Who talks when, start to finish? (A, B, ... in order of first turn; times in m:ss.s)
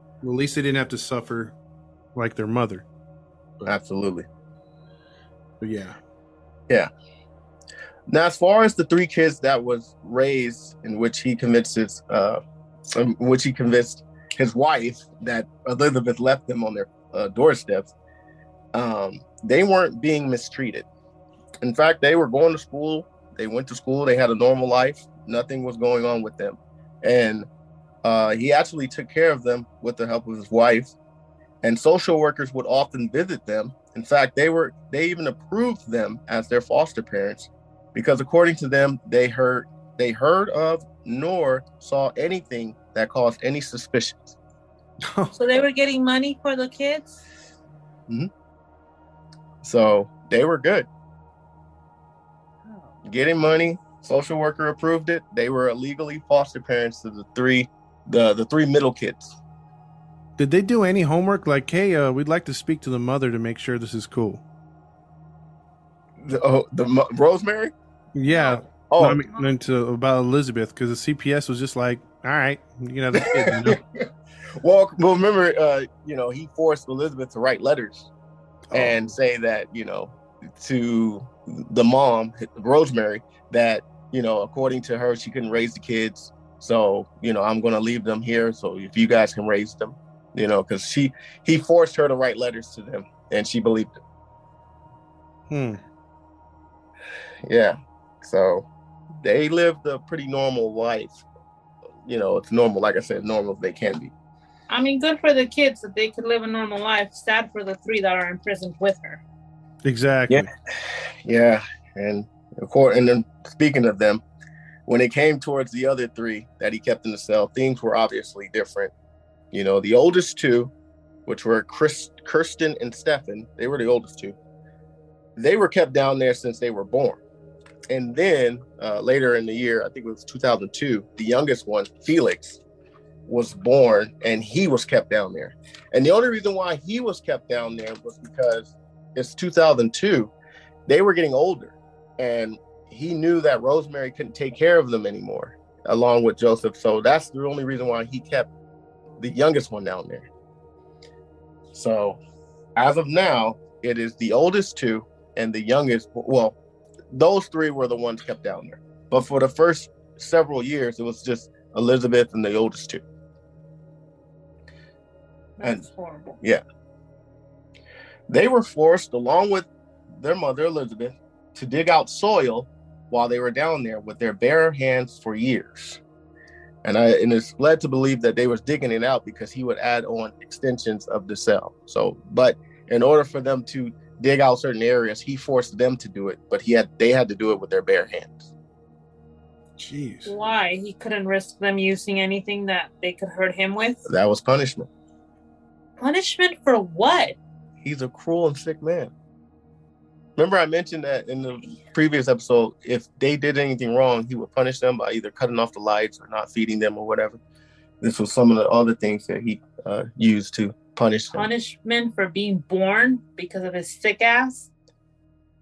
0:00.2-0:01.5 A
0:02.1-0:02.8 A
0:03.6-0:04.3 B
0:05.6-0:06.0 A
0:08.1-0:17.9 B
0:18.7-0:20.8 B
0:21.6-0:27.5 B
0:28.0-0:31.0 B
0:31.6-0:44.4 B
0:45.0-0:45.3 A
0:45.3-0:47.2 C
0:49.6-0:50.9 B
0:52.6-0:53.0 C
0:53.0-0:59.4 B
1:00.4-1:04.4 A
1:06.2-1:07.7 B
1:08.1-1:13.8 A
1:08.3-1:08.7 C
1:08.9-1:09.2 B
1:09.3-1:09.5 C
1:13.2-1:14.1 B
1:14.6-1:18.1 B
1:18.7-1:19.1 A
1:18.7-1:34.0 B
1:35.5-1:35.8 A
1:37.4-1:38.7 B
1:39.2-1:41.2 B
1:42.0-1:44.1 B
1:44.7-1:49.2 C
1:49.8-1:50.5 A
1:50.3-1:54.2 B
1:54.8-1:58.9 B
1:59.5-2:00.7 B
2:01.2-2:04.4 B
2:05.4-2:07.2 B
2:07.9-2:12.6 B
2:13.2-2:20.3 B
2:20.9-2:28.5 B
2:29.2-2:30.3 B
2:31.7-2:32.2 B
2:32.8-2:36.6 B
2:37.1-2:43.0 B
2:45.6-2:46.4 C
2:48.3-2:56.0 B
2:56.8-3:08.5 B
3:09.8-3:10.3 A
3:10.2-3:14.0 C
3:14.0-3:14.9 B
3:16.0-3:17.4 C
3:17.8-3:19.1 B
3:20.4-3:27.4 B
3:28.0-3:31.5 B
3:31.3-3:34.7 C